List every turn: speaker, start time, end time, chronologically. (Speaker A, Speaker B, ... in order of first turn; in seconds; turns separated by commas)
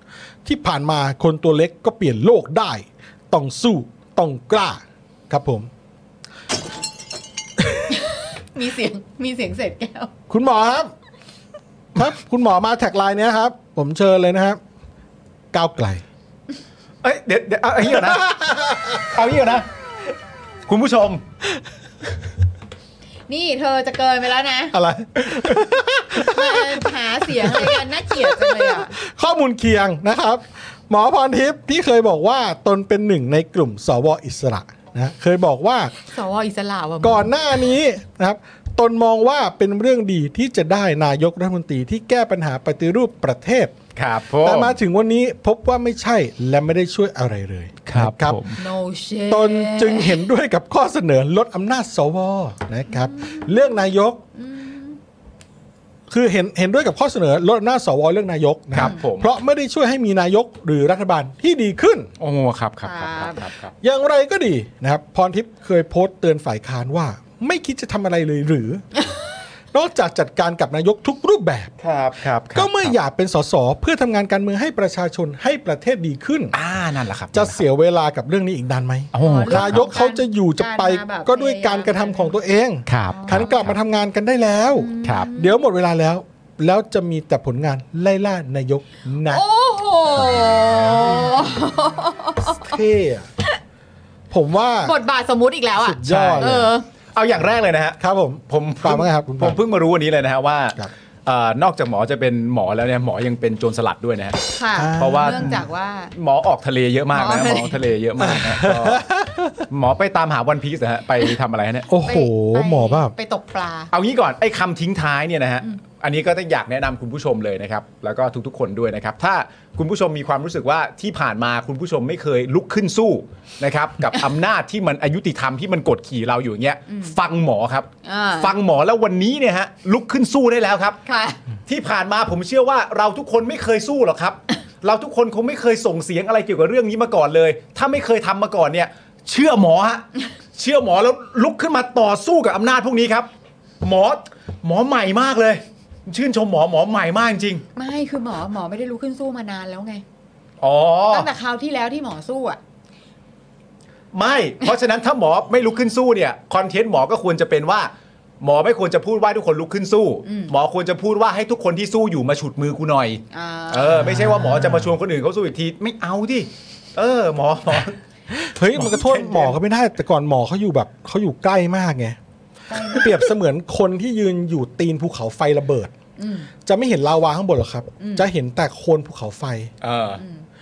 Speaker A: 0.5-5.7, Speaker B: 7.9-10.1, Speaker A: 10.3-10.9, Speaker A: 12.0-14.6, Speaker A: 15.5-16.0, Speaker C: 17.0-18.3, Speaker A: 17.8-19.1, Speaker C: 19.0-19.7, Speaker C: 20.7-21.2, Speaker B: 23.3-24.7, Speaker A: 24.7-35.9, Speaker B: 26.2-28.9, Speaker B: 36.1-37.7, Speaker A: 37.0-43.8, Speaker C: 44.0-44.8, Speaker A: 44.4-48.6, Speaker C: 47.9-48.6, Speaker B: 48.6-50.2, Speaker A: 49.3-54.2, Speaker B: 52.9-55.0, Speaker A: 56.1-62.1, Speaker C: 58.7-59.3, Speaker C: 62.2-63.7, Speaker B: 62.8-63.5, Speaker A: 63.8-68.8, Speaker A: 69.7-71.7, Speaker C: 71.8-73.0, Speaker A: 72.5-76.6, Speaker C: 76.5-77.6, Speaker A: 77.3-89.4, Speaker C: 79.1-79.9, Speaker B: 79.2-82.4, Speaker C: 82.9-83.8, Speaker B: 83.1-83.6, Speaker B: 84.8-85.6, Speaker C: 85.0-85.3, Speaker B: 89.3-92.8, Speaker A: 90.5-91.4, Speaker A: 92.4-93.3, Speaker A: 94.3-94.9, Speaker B: 94.8-96.8, Speaker A: 95.8-96.7, Speaker C: 96.0-96.5, Speaker C: 97.2-98.0, Speaker A: 98.0-99.6, Speaker C: 98.5-104.4, Speaker B: 104.5-106.1, Speaker A: 104.8-105.6, Speaker C: 105.0-105.6, Speaker C: 106.1-109.1, Speaker B: 107.1-107.8, Speaker A: 108.2-109.6, Speaker C: 109.7-111.9, Speaker A: 111.9-113.1, Speaker B: 112.0-113.9, Speaker C: 113.9-131.0, Speaker B: 126.9-127.2, Speaker B: 128.1-128.6, Speaker B: 131.1-131.4, Speaker C: 131.7-143.3, Speaker C: 143.8-147.6, Speaker B: 147.8-150.0, Speaker C: 150.6-151.3, Speaker B: 151.1-152.6, Speaker C: 154.1-168.0, Speaker B: 160.2-160.5, Speaker B: 163.3-164.1, Speaker A: 164.0-164.9, Speaker A: 168.3-172.2, Speaker C: 168.7-169.6, Speaker B: 172.7-173.2, Speaker A: 172.8-175.9, Speaker B: 176.2-176.5, Speaker A: 176.7-179.7, Speaker B: 178.0-178.3, Speaker C: 179.8-180.2, Speaker B: 180.2-180.5